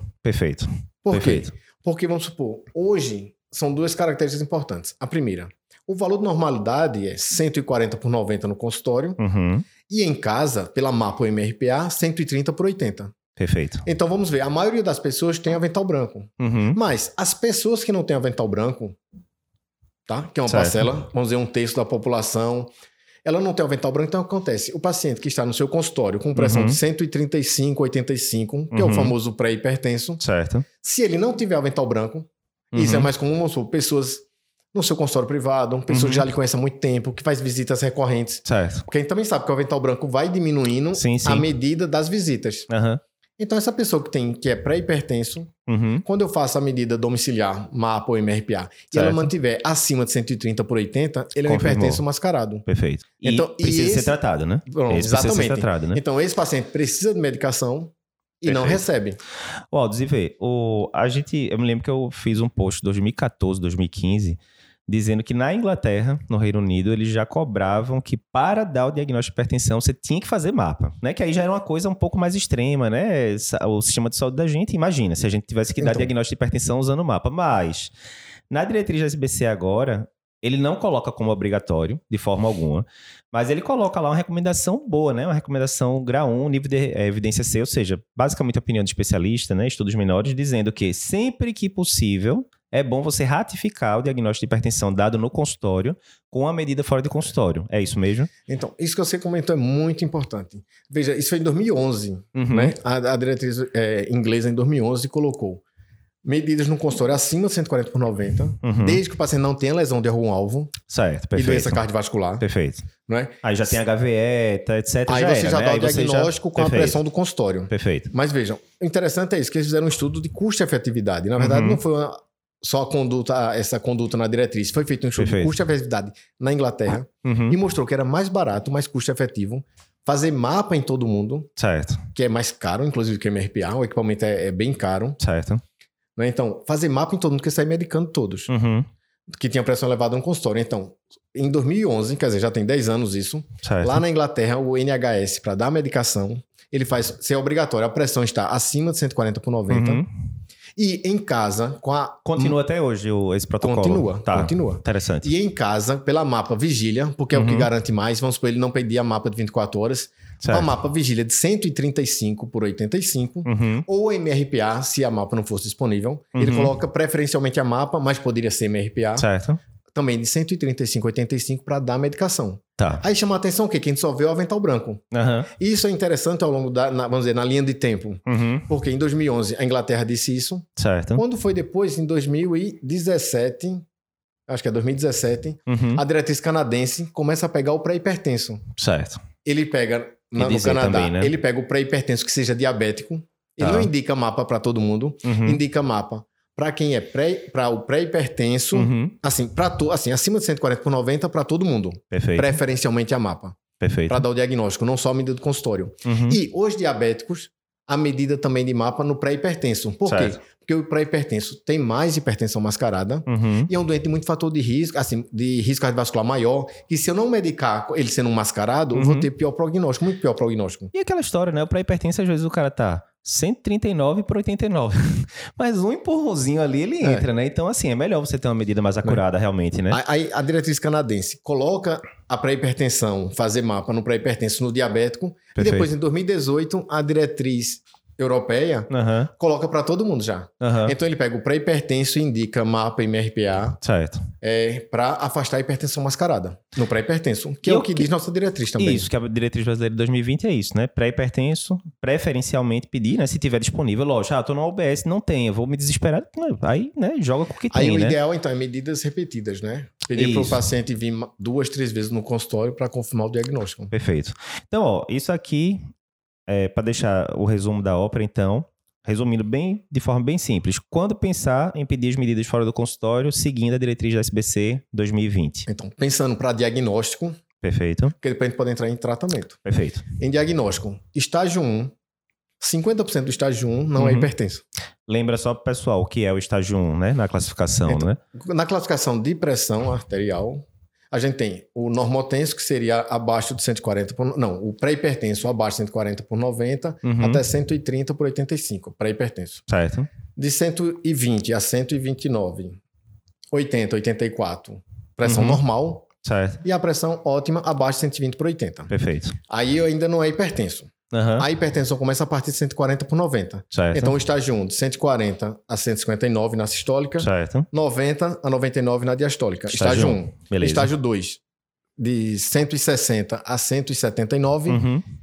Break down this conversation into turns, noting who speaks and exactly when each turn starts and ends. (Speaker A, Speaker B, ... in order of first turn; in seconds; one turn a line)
Speaker A: 0.2-1.5
Speaker B: 1.1-9.2
Speaker A: 9.2-9.7
Speaker B: 9.9-13.1
Speaker A: 13.4-13.8
Speaker B: 13.8-19.0
Speaker A: 16.4-16.8
Speaker B: 20.1-22.7
Speaker A: 20.5-20.9
Speaker B: 23.2-30.2
Speaker A: 26.3-26.8
Speaker A: 28.7-29.1
Speaker A: 30.2-30.6
Speaker B: 30.8-42.7
Speaker A: 32.7-33.1
Speaker A: 35.9-36.2
Speaker A: 38.4-38.8
Speaker A: 40.9-41.5
Speaker A: 42.7-43.0
Speaker B: 43.4-45.5
Speaker A: 45.7-46.0
Speaker B: 46.0-52.6
Speaker A: 48.9-49.3
Speaker A: 51.4-52.0
Speaker A: 52.7-56.0
Speaker B: 53.2-59.2
Speaker A: 58.5-58.8
Speaker A: 59.7-77.9
Speaker B: 75.8-76.1
Speaker A: 78.5-98.3
Speaker B: 98.5-105.6
Speaker A: 102.3-102.7
Speaker B: 106.2-110.7
Speaker A: 108.6-109.0
Speaker A: 110.9-111.8
Speaker B: 111.3-112.4
Speaker A: 112.4-112.9
Speaker B: 113.1-113.5
Speaker A: 113.4-117.0
Speaker B: 115.1-131.5
Speaker A: 117.7-118.1
Speaker A: 121.4-121.8
Speaker A: 125.2-125.6
Speaker A: 127.2-127.5
Speaker A: 131.6-132.0
Speaker B: 132.1-135.2
Speaker A: 135.2-135.6
Speaker B: 136.2-138.5
Speaker A: 138.5-138.9
Speaker B: 139.3-150.0
Speaker A: 143.6-144.0
Speaker A: 149.7-150.1
Speaker B: 150.8-152.6
Speaker A: 152.2-155.3
Speaker B: 153.6-169.3
Speaker A: 157.3-157.7
Speaker A: 160.4-160.7
Speaker A: 163.4-163.8
Speaker A: 166.3-166.7
Speaker A: 169.2-169.6
Speaker B: 169.9-175.0
Speaker A: 172.8-173.0
Speaker A: 175.1-175.5
Speaker B: 175.6-183.8
Speaker A: 178.3-178.7
Speaker A: 180.8-181.2
Speaker B: 184.5-188.6
Speaker A: 185.7-186.0
Speaker A: 188.8-189.2
Speaker B: 189.4-220.9
Speaker A: 190.3-191.3
Speaker A: 193.6-193.9
Speaker A: 195.2-195.6
Speaker A: 198.7-199.1
Speaker A: 202.1-202.5
Speaker A: 203.8-204.2
Speaker A: 206.0-206.4
Speaker A: 210.1-210.4
Speaker A: 213.3-213.7
Speaker A: 218.9-219.3
Speaker A: 220.9-230.0
Speaker B: 227.0-227.3
Speaker B: 229.9-243.8
Speaker A: 235.5-235.9
Speaker A: 238.9-239.3
Speaker A: 240.6-240.9
Speaker A: 243.8-244.2
Speaker B: 244.4-249.1
Speaker A: 247.6-248.1
Speaker A: 248.8-258.2
Speaker B: 257.7-263.9
Speaker A: 260.1-260.6
Speaker A: 263.9-265.8
Speaker A: 266.5-275.7
Speaker B: 275.7-277.4
Speaker A: 277.6-278.1
Speaker B: 278.2-279.6
Speaker A: 279.6-280.1
Speaker B: 280.2-281.9
Speaker B: 282.6-284.6
Speaker A: 284.0-284.3
Speaker A: 285.1-288.2
Speaker B: 287.9-299.6
Speaker A: 297.0-297.4
Speaker A: 299.7-300.1
Speaker B: 300.4-302.8
Speaker B: 303.5-306.1
Speaker A: 305.2-305.6
Speaker A: 306.2-306.6
Speaker B: 306.6-308.9
Speaker A: 308.9-309.4
Speaker B: 309.5-321.4
Speaker A: 311.1-311.5
Speaker A: 313.7-314.1
Speaker A: 317.2-317.7
Speaker A: 319.7-320.9
Speaker B: 322.0-324.8
Speaker A: 324.7-325.0